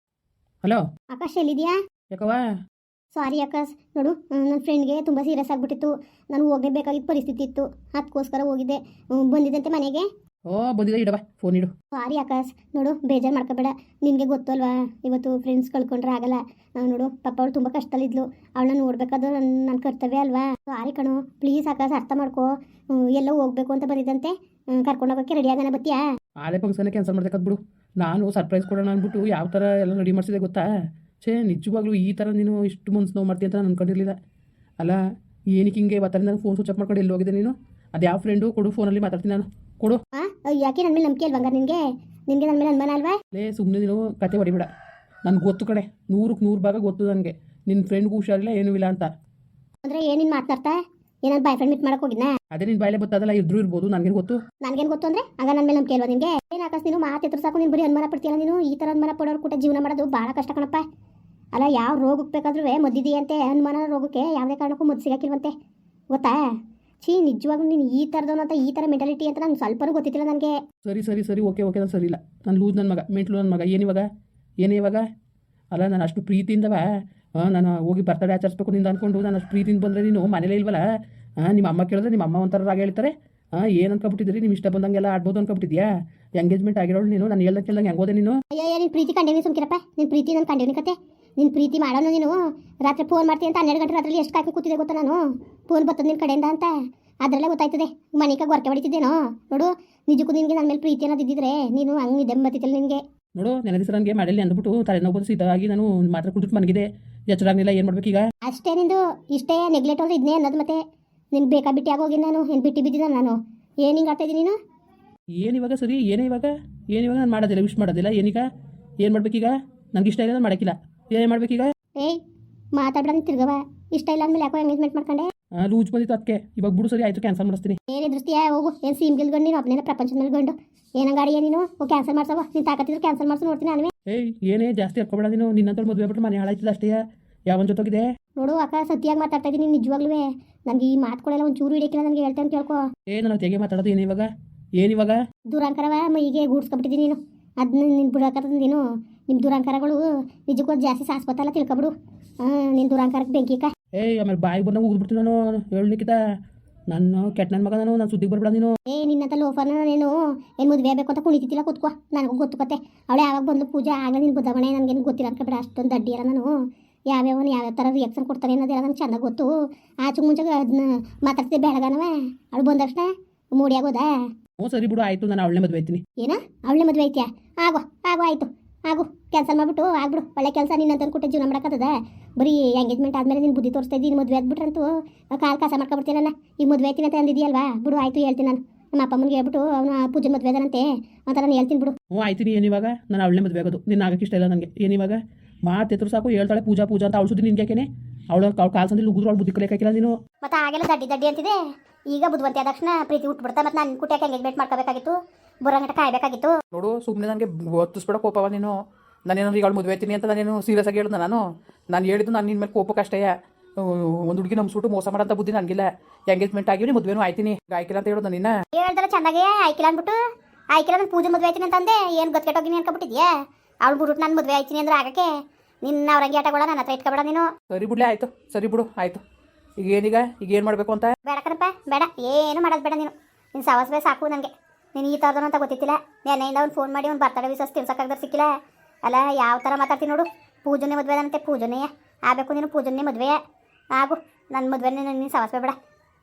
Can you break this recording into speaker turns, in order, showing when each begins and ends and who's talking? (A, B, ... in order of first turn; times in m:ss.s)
0:01.1-0:01.8 A
0:02.1-0:02.4 B
0:03.1-0:10.1 A
0:10.5-0:11.7 B
0:11.9-0:26.0 A
0:26.4-0:30.6 B
0:31.2-0:34.2 B
0:35.5-0:40.0 B
0:40.1-0:43.2 A
0:43.3-0:44.7 B
0:45.2-0:49.1 B
0:49.8-0:52.3 A
0:52.5-0:54.4 B
0:54.6-1:00.8 A
1:01.5-1:05.5 A
1:06.1-1:06.4 A
1:07.0-1:10.6 A
1:10.8-1:14.0 B
1:14.6-1:15.0 B
1:15.7-1:16.8 B
1:17.4-1:20.8 B
1:21.4-1:25.9 B
1:26.4-1:28.4 B
1:28.5-1:36.7 A
1:37.2-1:43.0 A
1:43.4-1:48.3 B
1:48.4-1:50.8 A
1:51.3-1:54.6 A
1:55.4-1:58.4 B
1:59.0-2:01.7 B
2:02.8-2:05.3 A
2:05.6-2:07.8 B
2:07.9-2:13.9 A
2:14.1-2:18.0 B
2:18.4-2:22.8 A
2:23.1-2:25.2 B
2:25.5-2:33.7 A
2:33.9-2:36.2 B
2:36.9-2:38.8 B
2:38.9-2:46.5 A
2:47.1-2:49.5 A
2:50.0-2:54.1 A
2:54.6-2:56.0 B
2:56.2-3:12.0 A
3:12.1-3:20.2 B
3:20.4-3:21.6 A
3:22.1-3:26.5 A
3:26.7-3:28.8 B
3:29.3-3:38.6 B
3:38.7-3:40.2 A
3:40.7-3:45.3 A
3:45.8-3:47.5 A
3:47.7-3:49.2 B
3:49.8-3:51.2 B
3:51.2-4:03.4 A
4:03.9-4:05.8 A